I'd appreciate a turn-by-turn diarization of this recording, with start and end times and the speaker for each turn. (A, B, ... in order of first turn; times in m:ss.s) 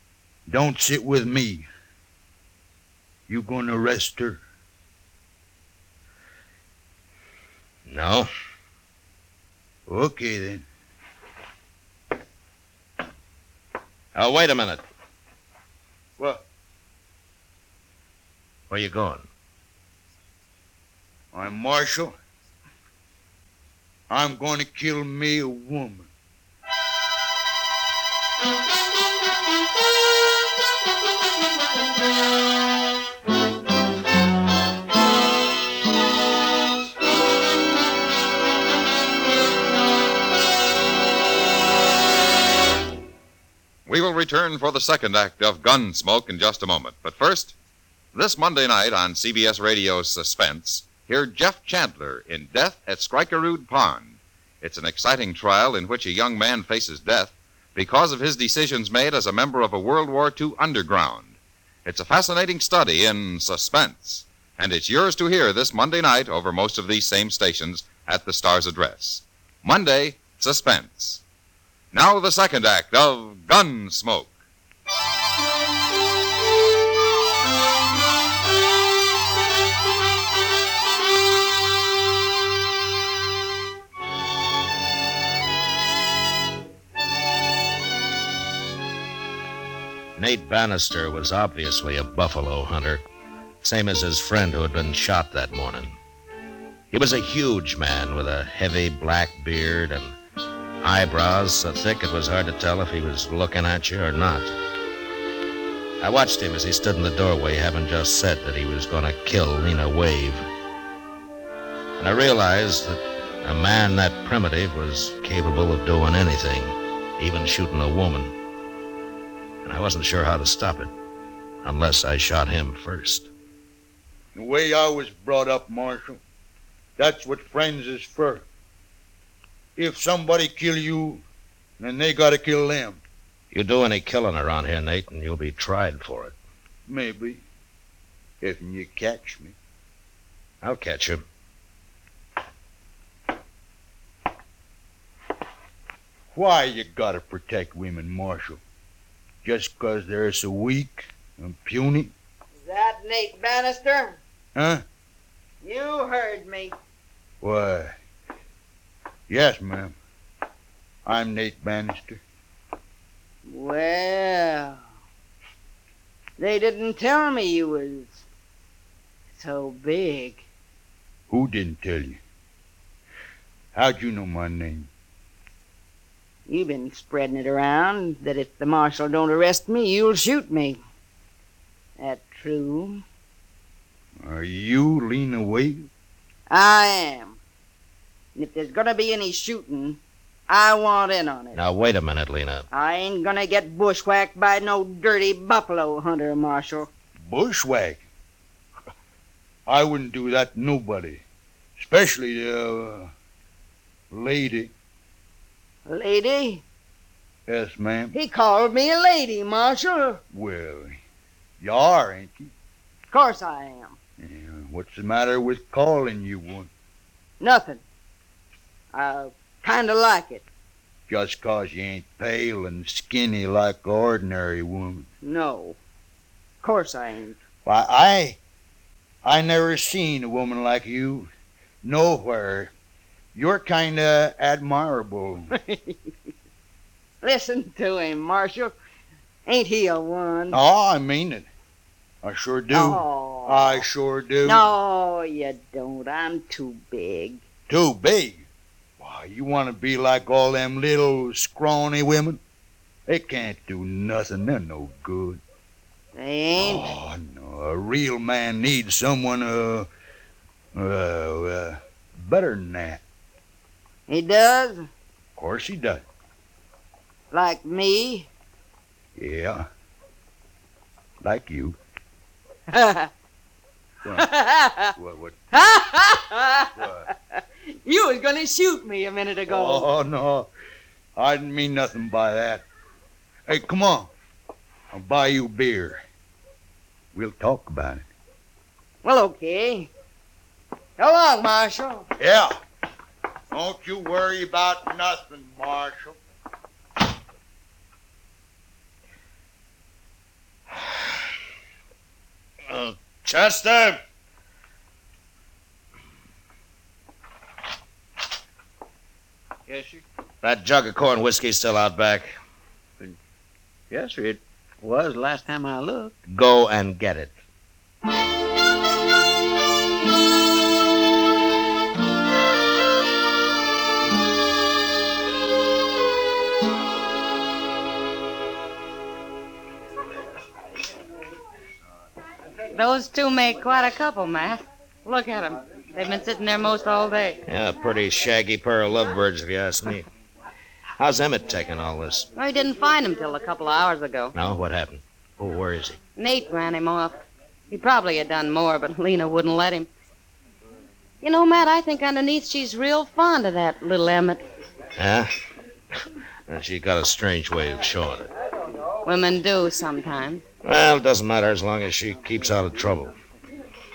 0:00.5-0:01.7 A
0:03.3-0:04.4 A
0:07.9-0:08.3 B
0:09.9-0:10.6 A
0:14.1-0:14.8 B
0:16.2-0:16.4 A
0:18.7-0:19.3 B
0:21.3-0:22.1 A
0:24.1-0:26.1 A
0:43.9-0:47.5 C
0:48.1-1:11.2 C
1:11.9-1:14.3 C
1:30.2-1:33.0 B
1:33.6-1:36.0 B
1:36.9-1:40.1 B
1:40.8-1:44.5 B
1:46.0-1:50.4 B
1:52.0-1:58.3 B
1:59.6-2:00.9 B
2:01.6-2:03.3 B
2:04.3-2:06.2 A
2:07.0-2:08.4 A
2:09.8-2:11.2 A
2:11.8-2:13.0 A
2:13.5-2:16.3 B
2:16.9-2:17.4 A
2:18.4-2:19.5 A
2:20.6-2:21.2 B
2:26.3-2:28.6 A
2:29.4-2:32.1 A
2:32.6-2:34.2 D
2:34.5-2:34.8 A
2:35.6-2:36.8 D
2:37.4-2:37.9 A
2:39.3-2:40.0 A
2:41.0-2:42.2 A
2:43.4-2:44.8 D
2:46.4-2:48.2 D
2:49.3-2:50.4 D
2:51.3-2:52.2 A
2:53.7-2:54.9 A
2:56.5-3:00.8 D
3:02.0-3:03.0 D
3:04.2-3:05.9 A
3:06.5-3:07.4 D
3:08.3-3:11.6 D
3:11.5-3:12.7 B
3:12.7-3:16.9 D
3:17.2-3:18.0 A
3:19.6-3:21.2 A
3:21.8-3:23.1 A
3:24.1-3:24.7 A
3:25.8-3:26.6 D
3:27.5-3:28.1 A
3:28.1-3:30.2 D
3:30.3-3:31.0 A
3:31.6-3:32.5 A
3:33.1-3:34.0 D
3:34.2-3:36.7 A
3:37.4-3:37.8 D
3:38.9-3:40.4 D
3:41.1-3:45.1 A
3:45.2-3:45.8 D
3:46.6-3:47.4 D
3:47.6-3:48.4 A
3:49.2-3:51.3 A
3:51.8-3:52.7 A
3:53.3-3:55.5 A
3:55.5-3:56.0 D
3:57.2-3:58.8 D
3:59.4-4:00.6 D
4:00.5-4:01.5 A
4:02.2-4:04.6 A
4:02.7-4:03.8 D
4:04.4-4:07.4 D
4:07.7-4:08.4 A
4:09.0-4:12.4 A
4:13.1-4:15.4 A
4:16.1-4:16.9 D
4:16.6-4:19.9 A
4:20.7-4:23.0 A
4:24.1-4:24.9 D
4:25.4-4:26.0 A
4:27.3-4:28.3 D
4:29.2-4:29.7 A
4:31.2-4:31.8 A
4:32.7-4:33.1 D
4:34.2-4:34.9 D
4:35.0-4:35.5 A
4:35.5-4:39.9 D
4:36.7-4:37.1 A
4:39.5-4:40.5 A
4:41.2-4:42.6 A
4:43.5-4:44.1 A
4:44.9-4:46.0 A
4:47.1-4:48.0 A
4:49.0-4:49.9 D
4:51.0-4:52.1 D
4:52.2-4:52.5 A
4:53.5-4:56.2 A
5:02.7-5:04.0 B
5:09.7-5:10.0 E
5:10.4-5:12.3 B
5:13.9-5:16.2 E
5:16.3-5:17.3 B
5:32.7-5:37.4 F
5:37.5-5:40.1 B
5:41.0-5:42.3 B
5:42.3-5:44.3 F
5:44.4-5:46.0 B
5:46.2-5:47.2 F
5:47.7-5:49.9 F
5:51.2-5:54.4 F
5:55.0-5:55.3 B
5:56.5-5:58.3 B
5:59.0-6:00.4 F
6:00.6-6:03.1 B